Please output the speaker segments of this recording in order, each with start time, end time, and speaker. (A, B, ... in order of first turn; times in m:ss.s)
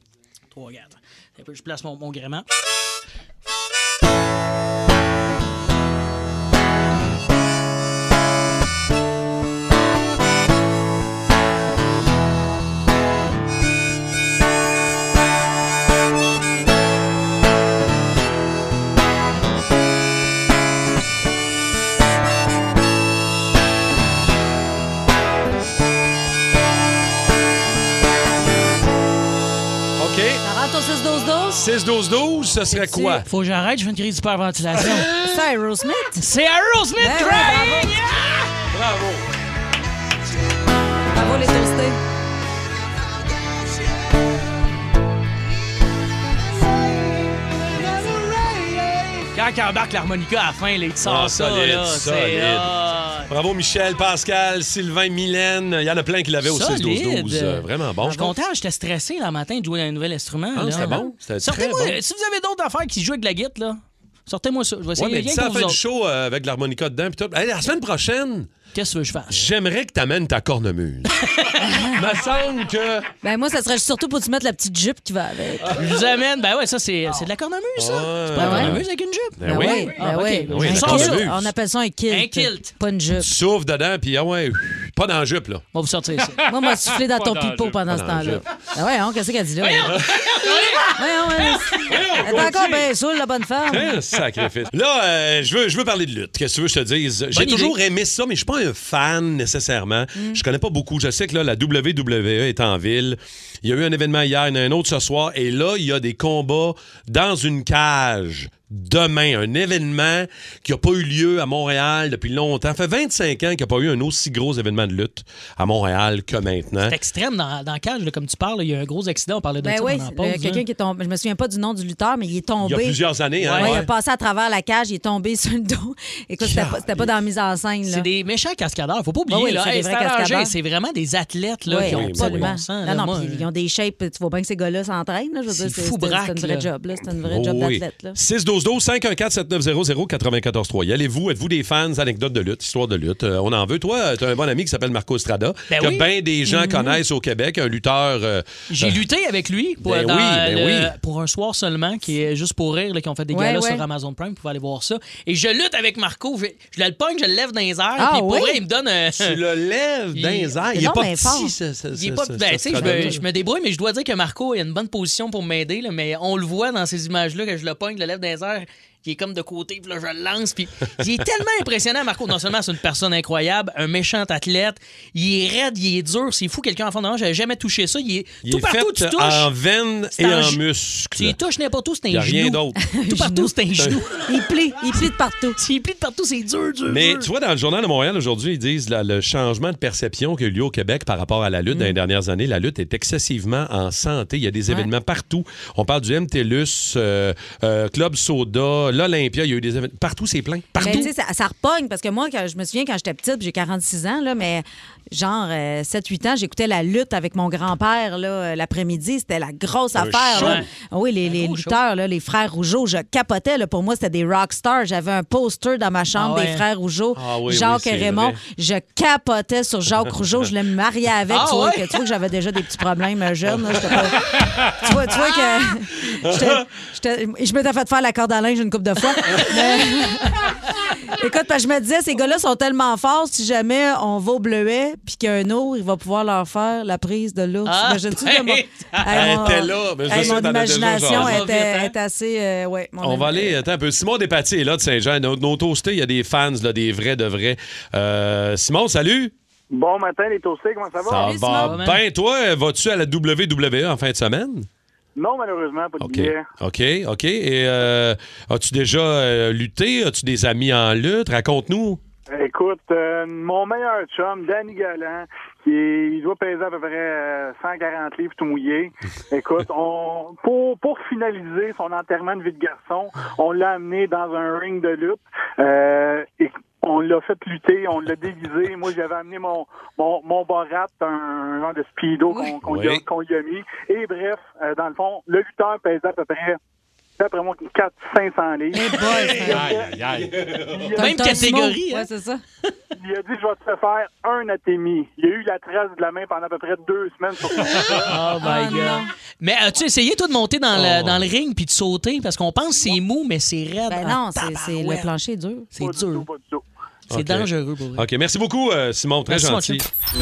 0:00.5-0:02.4 A
0:30.0-0:30.4 B
0:30.4-0:31.6 C
0:31.6-0:33.2 B
0:32.7-0:33.2 C
0:33.2-0:35.1 A
0:35.2-0:36.2 C
0:36.2-0:38.4 A
0:37.0-0:38.0 C
0:38.7-0:39.2 B
0:41.1-0:42.0 C
0:49.3-0:53.3 A
0:51.0-0:52.7 B
0:53.3-0:58.3 B
0:56.4-1:05.8 A
1:00.5-1:02.0 B
1:00.7-1:01.1 C
1:05.0-1:08.5 B
1:08.7-1:09.4 A
1:09.3-1:11.1 B
1:11.2-1:11.6 A
1:11.6-1:12.0 C
1:11.9-1:13.1 B
1:13.2-1:15.7 C
1:15.7-1:21.3 A
1:17.8-1:18.8 B
1:18.4-1:18.8 C
1:19.4-1:21.5 B
1:19.4-1:23.3 C
1:22.1-1:22.7 A
1:23.2-1:25.6 B
1:25.7-1:26.4 A
1:26.4-1:27.8 D
1:26.5-1:30.0 C
1:27.9-1:28.4 B
1:29.7-1:30.9 A
1:29.9-1:30.6 B
1:30.9-1:34.0 C
1:31.9-1:32.9 B
1:33.7-1:56.9 B
1:37.3-1:37.8 A
1:40.1-1:40.4 C
1:56.8-2:00.6 A
1:59.6-2:03.0 C
2:02.6-2:03.9 B
2:03.4-2:03.8 A
2:03.5-2:08.1 C
2:06.4-2:07.1 B
2:07.9-2:13.4 A
2:09.3-2:10.5 C
2:11.7-2:18.2 C
2:11.8-2:12.5 B
2:15.5-2:16.7 A
2:17.2-2:29.0 B
2:25.7-2:26.1 A
2:26.4-2:27.0 C
2:28.7-2:39.4 A
2:29.8-2:30.9 B
2:33.3-2:33.8 C
2:38.0-2:38.6 C
2:39.2-2:43.2 B
2:40.1-2:40.5 A
2:40.7-2:41.5 C
2:41.9-2:59.5 A
2:42.8-2:43.2 C
2:58.4-3:01.4 B
3:00.2-3:00.6 A
3:01.1-3:04.3 A
3:02.1-3:02.8 B
3:02.8-3:03.5 C
3:04.2-3:05.6 C
3:05.6-3:07.3 A
3:06.9-3:21.1 B
3:20.7-3:50.5 C
3:20.8-3:21.1 A
3:29.9-3:30.6 B
3:30.4-3:30.7 A
3:31.2-3:31.8 A
3:36.2-3:36.6 A
3:37.1-3:38.4 B
3:41.3-3:42.0 A
3:43.8-3:44.1 B
3:46.2-3:46.6 B
3:49.2-3:49.5 A
3:51.1-4:03.6 C
3:57.6-4:00.4 A
3:59.1-4:01.4 B
4:01.1-4:01.9 A
4:03.0-4:09.3 B
4:09.7-4:11.3 E
4:11.0-4:14.7 B
4:11.1-4:11.8 C
4:11.6-4:12.0 A
4:15.2-4:16.5 E
4:16.0-4:22.0 B
4:22.3-4:46.6 E
4:42.3-4:42.6 C
4:42.6-4:43.0 B
4:47.2-4:50.0 E
4:48.7-4:49.7 C
4:49.4-4:50.5 D
4:50.5-4:51.1 E
4:50.9-4:52.4 C
4:51.0-4:52.1 A
4:53.0-4:58.1 E
4:58.0-5:05.1 A
4:58.4-4:59.1 C
5:00.7-5:01.2 B
5:03.9-5:05.7 C
5:05.7-5:06.3 A
5:05.8-5:06.6 E
5:07.1-5:09.9 B
5:07.1-5:08.0 A
5:09.3-5:09.8 A